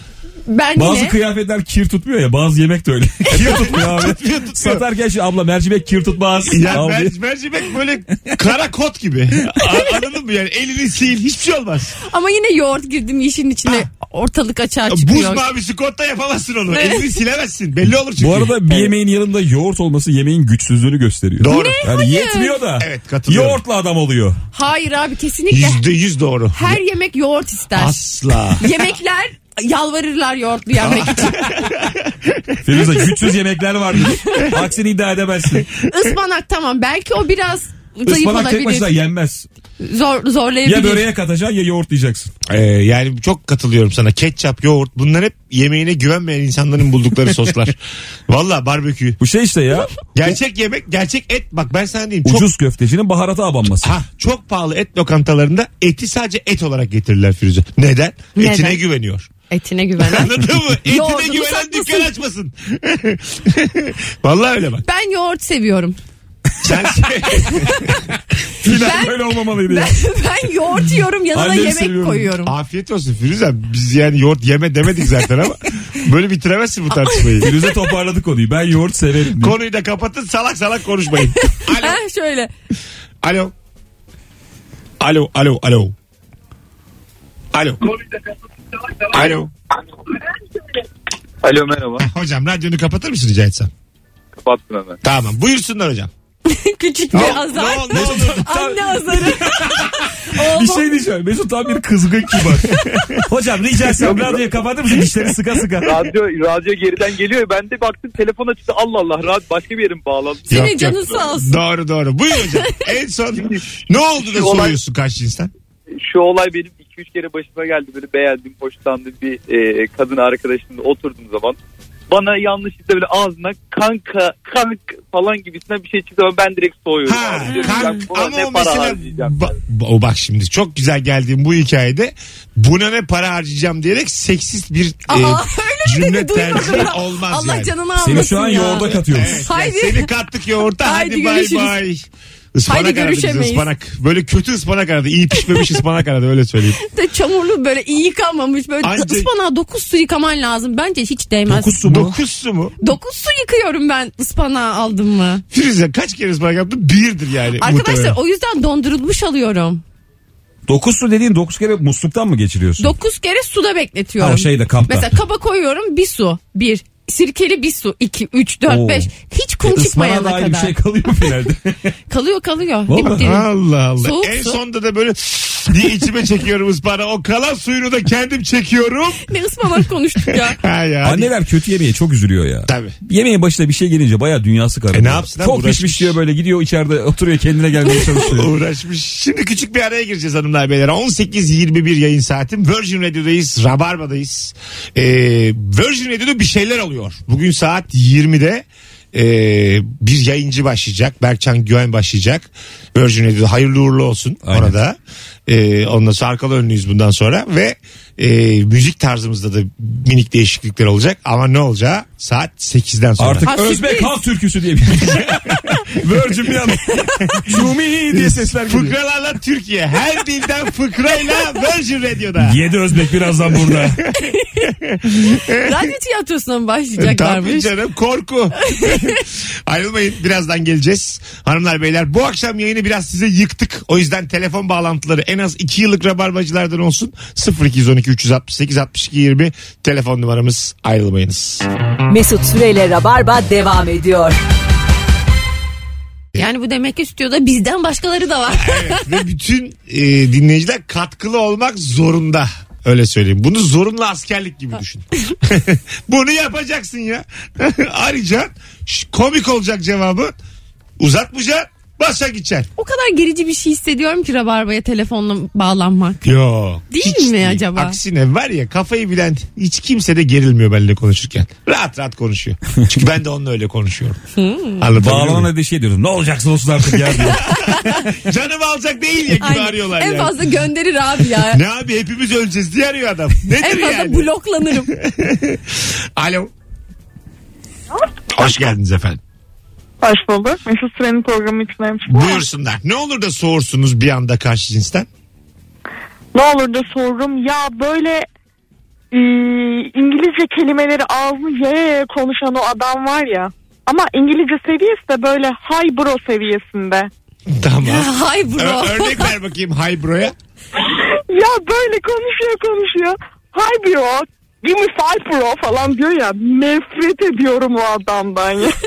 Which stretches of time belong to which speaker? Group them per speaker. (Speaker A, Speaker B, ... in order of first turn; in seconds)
Speaker A: 0.5-1.1, 12.0-15.4, 16.7-17.1, 21.4-22.6, 24.5-25.9, 26.5-31.6, 34.2-34.5, 35.8-38.9, 39.8-41.0, 58.4-58.8, 59.5-62.1, 64.8-66.0, 67.3-67.8, 68.6-72.5, 77.0-77.9, 81.4-82.5, 96.5-101.0, 102.7-103.2, 110.5-111.6, 112.5-112.8, 127.5-128.0, 135.1-140.1, 140.8-141.8, 142.7-143.7, 146.8-151.8, 152.8-155.4, 157.6-159.8, 162.8-170.8, 172.1-173.5, 174.0-174.6, 179.3-180.6, 213.4-214.2, 216.9-217.4, 224.2-227.7, 228.6-229.2, 246.4-249.1, 262.8-266.2, 266.9-268.0, 274.4-274.8, 277.4-278.0, 279.4-281.6, 283.6-284.9, 307.8-309.3
Speaker B: 0.8-7.1, 18.2-24.4, 32.6-35.7, 38.0-39.5, 40.6-42.3, 49.2-50.0, 52.2-53.9, 68.6-70.0, 71.3-72.3, 77.4-79.5, 97.9-106.1, 138.0-139.4, 151.5-152.2, 160.7-162.9, 164.2-165.1, 168.7-169.1, 169.6-171.8, 172.9-173.3, 181.0-188.5, 204.4-204.7, 213.2-218.9, 222.4-224.0, 274.9-277.6
Speaker C: 3.3-4.8, 6.5-11.9, 14.9-18.9, 21.4-21.8, 22.8-23.6, 25.5-26.8, 27.7-28.9, 30.8-32.6, 42.5-49.2, 50.1-52.5, 53.8-59.3, 60.0-64.8, 66.6-67.9, 72.4-77.5, 79.4-82.0, 83.2-83.5, 85.0-85.9, 87.5-87.8, 89.1-89.5, 92.0-93.7, 95.0-96.1, 97.1-98.6, 102.9-103.2, 110.5-115.5, 127.0-137.8, 138.7-146.8, 148.8-149.3, 151.8-152.8, 155.5-158.2, 173.0-179.3, 180.3-181.3, 182.7-182.9, 184.9-186.2, 188.2-213.5, 215.1-215.5, 217.4-222.6, 223.5-224.0, 224.6-225.9, 227.0-241.7, 248.5-260.4, 261.0-262.7, 266.2-274.2, 274.8-275.5, 277.5-280.4, 281.4-284.3, 284.9-286.5, 288.3-289.2, 292.1-295.1, 307.5-310.3
Speaker D: 91.4-92.0, 94.4-95.0, 104.0-104.6, 105.8-111.3, 114.2-114.8, 116.0-121.6, 122.1-129.4
Speaker E: 242.1-244.3
Speaker F: 290.0-292.4, 296.3-298.3, 299.1-307.1, 310.8-318.8